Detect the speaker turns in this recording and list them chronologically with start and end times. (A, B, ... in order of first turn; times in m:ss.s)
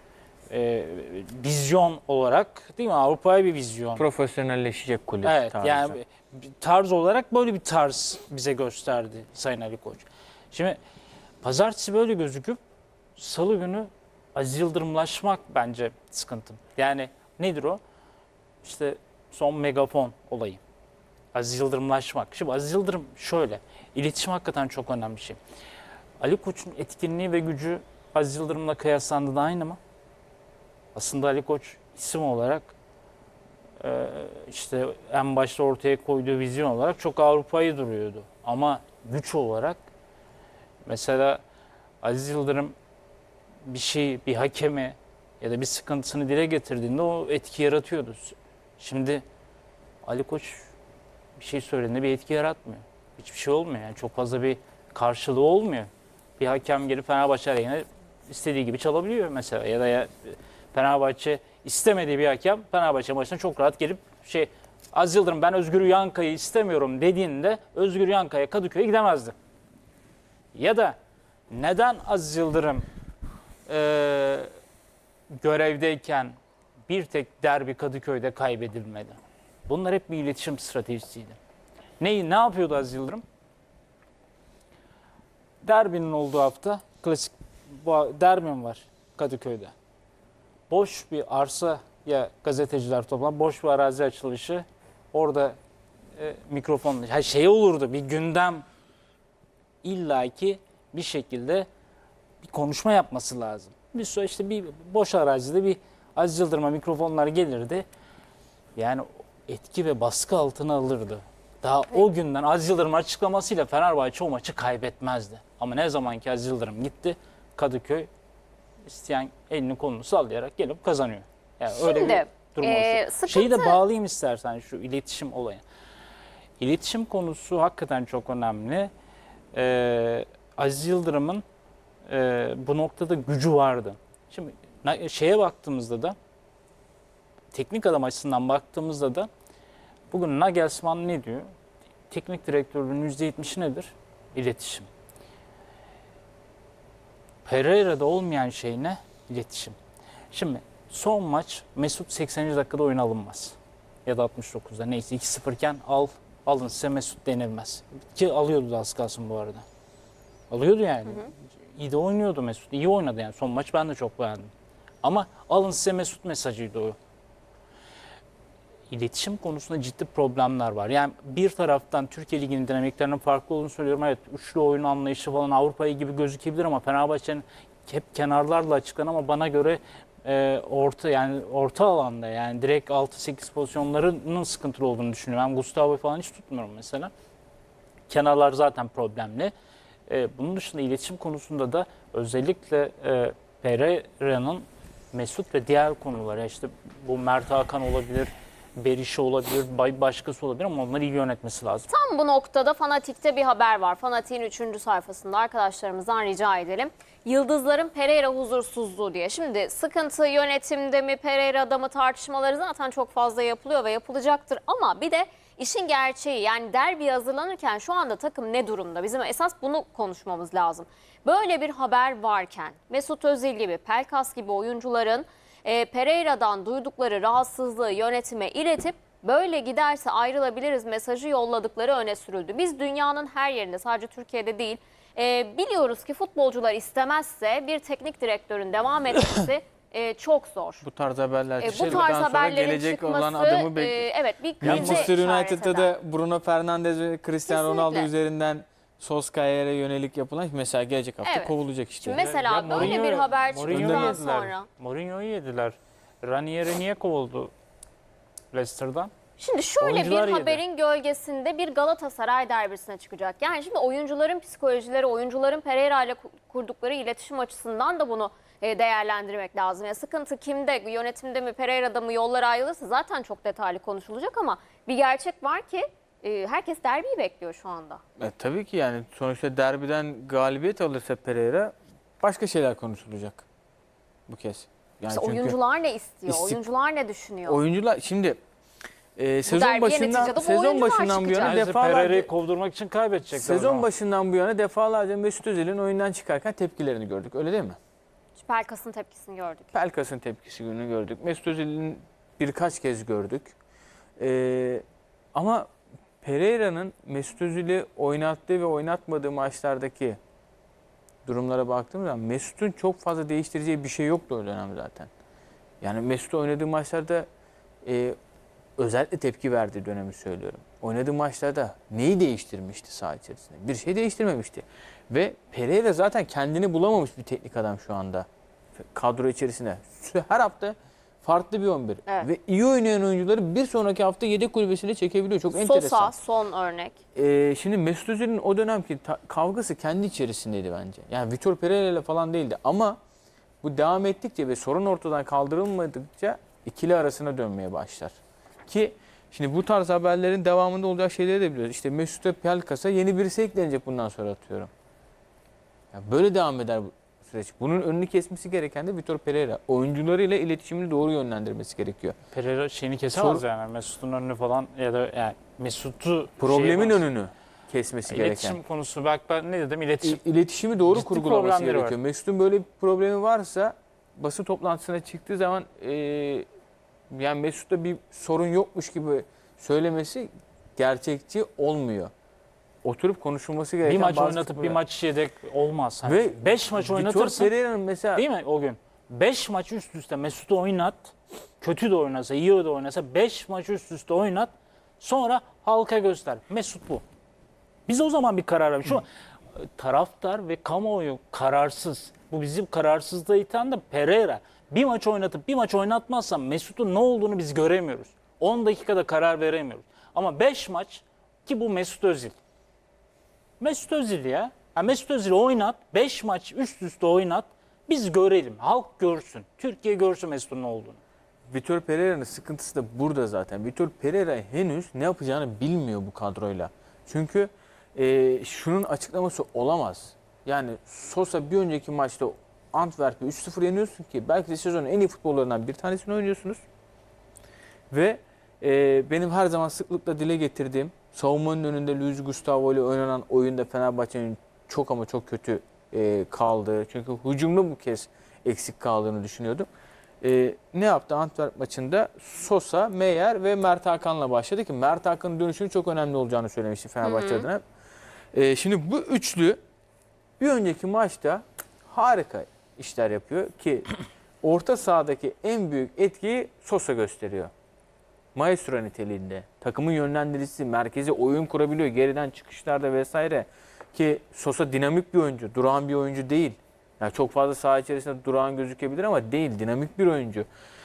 0:00.5-0:04.0 A
0:04.0-0:06.0 B
0:05.2-0:10.8 A
0:11.4-0:12.6 A
0:13.2-0:17.8 A
0:18.6-0:20.6 A
0:21.3-0:25.4 A
0:26.2-0:29.8 A
0:30.9-0:32.7 A
0:33.8-0:39.8 A
0:40.8-0:41.4 A
0:42.0-0:42.7 A
0:43.6-0:49.2 A
0:50.0-0:50.7 A
0:51.4-1:09.3 A
1:10.5-1:11.0 A
1:11.5-1:12.8 A
1:13.6-1:14.5 A
1:15.3-1:16.3 A
1:16.9-1:21.4 A
1:22.0-1:23.2 A
1:25.6-1:29.7 A
1:30.7-1:35.6 A
1:36.1-1:38.6 A
1:39.8-1:41.7 A
1:42.4-1:47.8 A
1:48.8-1:58.1 A
1:58.8-2:05.6 A
2:01.7-2:03.8 C
2:06.6-2:08.9 A
2:09.5-2:11.4 A
2:12.0-2:16.2 A
2:17.5-2:19.3 A
2:20.1-2:21.5 A
2:22.1-2:24.9 A
2:27.4-2:29.8 A
2:30.3-2:39.6 A
2:40.5-2:44.5 A
2:45.0-2:47.0 A
2:48.9-3:07.1 A
3:08.1-3:09.5 A
3:10.1-3:21.9 A
3:21.9-4:00.8 C
4:00.8-4:04.1 B
4:01.6-4:05.9 C
4:01.6-4:02.1 A
4:04.6-4:13.0 B
4:04.6-4:05.1 A
4:07.5-4:08.1 C
4:11.2-4:14.7 C
4:12.1-4:17.5 A
4:13.6-4:14.2 B
4:18.5-4:19.1 A
4:19.4-4:38.0 C
4:19.8-4:20.6 A
4:38.2-4:43.4 B
4:44.3-4:45.6 B
4:45.1-4:47.6 C
4:46.3-4:46.6 B
4:47.4-4:48.4 B
4:49.2-4:52.3 B
4:49.4-4:51.6 C
4:51.4-4:53.9 A
4:53.3-4:57.8 B
4:58.4-4:59.7 C
4:59.7-5:03.5 B
5:04.2-5:04.8 B
5:05.3-5:05.7 B
5:06.2-5:10.2 B
5:11.2-5:15.1 B
5:15.8-5:17.3 B
5:17.8-5:18.2 B
5:18.8-5:28.3 B
5:28.9-5:36.1 B
5:35.5-5:37.0 C
5:37.1-5:43.0 B
5:43.6-5:48.2 B
5:48.7-5:54.7 B
5:55.9-6:02.2 B
6:02.3-6:07.0 A
6:03.1-6:03.4 B
6:06.4-6:08.6 B
6:08.0-6:10.2 A
6:10.0-6:16.5 B
6:10.9-6:12.0 A
6:17.1-6:22.1 B
6:22.8-6:24.8 B
6:23.8-6:27.5 A
6:26.0-6:28.2 B
6:28.1-6:37.0 A
6:37.9-6:52.3 A
6:53.6-7:01.0 A
7:01.5-7:16.6 B
7:17.9-7:29.7 B
7:30.2-7:37.6 B
7:37.0-7:37.5 C
7:38.3-7:39.6 B
7:40.4-7:43.9 B
7:44.4-7:47.5 B
7:48.3-8:00.5 B